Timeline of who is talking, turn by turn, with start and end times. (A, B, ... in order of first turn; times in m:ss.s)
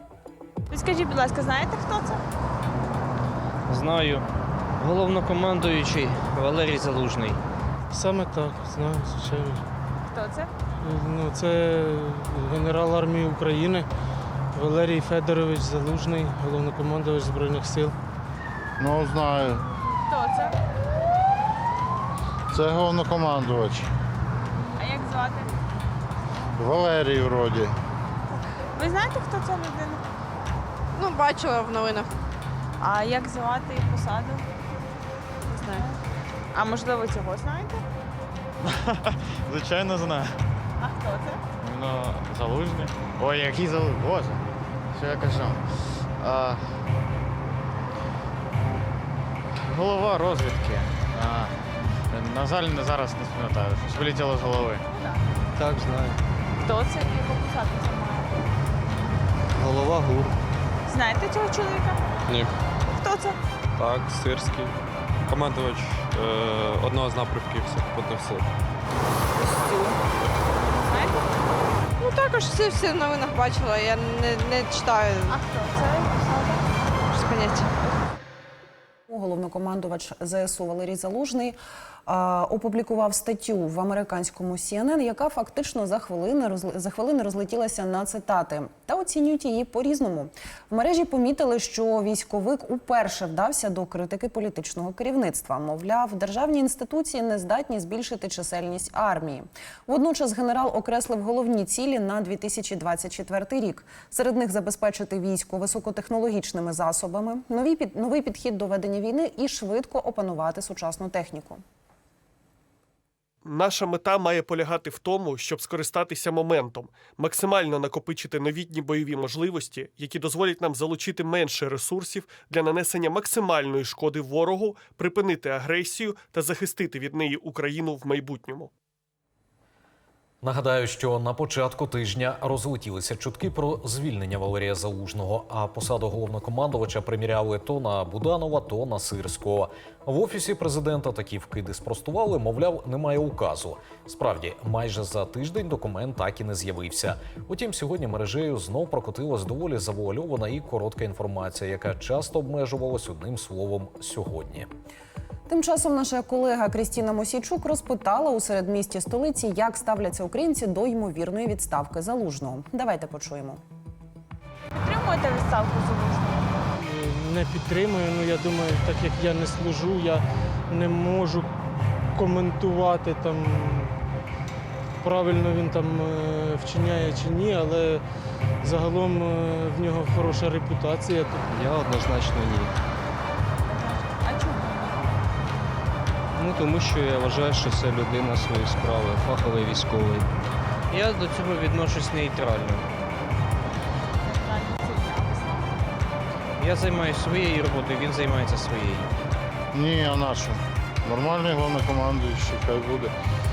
0:00.7-0:02.2 A
0:03.7-0:04.2 B
0:04.8-0:07.4 B
0:07.9-0:09.6 C
0:10.1-0:10.5 A
0:10.8-0:13.9 C
0:14.5-0:17.9 C
0:18.8-0:19.6 D
0:20.1-0:20.6 A
0:22.5-0:23.9 D
0:24.8-0:25.5 A
0:26.6-0:27.8 D
0:28.7-0:30.0 A
0:31.0-0:32.1 E
0:32.8-0:34.4 A
0:35.4-0:36.0 A
0:36.5-0:37.8 A
0:38.6-0:40.4 F
0:40.8-0:41.4 A
0:41.6-0:46.7 F
0:49.6-0:51.6 F
0:52.1-0:54.8 F
0:54.9-0:55.4 A
0:56.6-0:58.3 A
1:00.8-1:02.0 A
1:02.3-1:02.5 G
1:02.9-1:03.4 A
1:03.8-1:08.4 G
1:10.7-1:11.2 A
1:12.0-1:15.3 E
1:15.3-1:16.7 A
1:17.2-1:17.6 E
1:19.1-1:51.6 H
1:53.5-1:56.9 I
1:57.7-2:01.2 I
2:01.9-2:02.5 I
2:07.8-2:08.7 I
2:10.4-2:34.7 J
2:35.5-2:43.6 H
2:44.7-2:46.6 A
2:46.8-2:51.5 C
2:52.1-2:53.9 C
2:55.0-2:58.0 C
2:58.6-3:01.7 C
3:03.6-3:05.2 A
3:06.4-3:10.3 B
3:10.9-3:12.8 B
3:14.2-3:15.8 A
3:16.6-3:19.1 B
3:19.7-3:23.1 D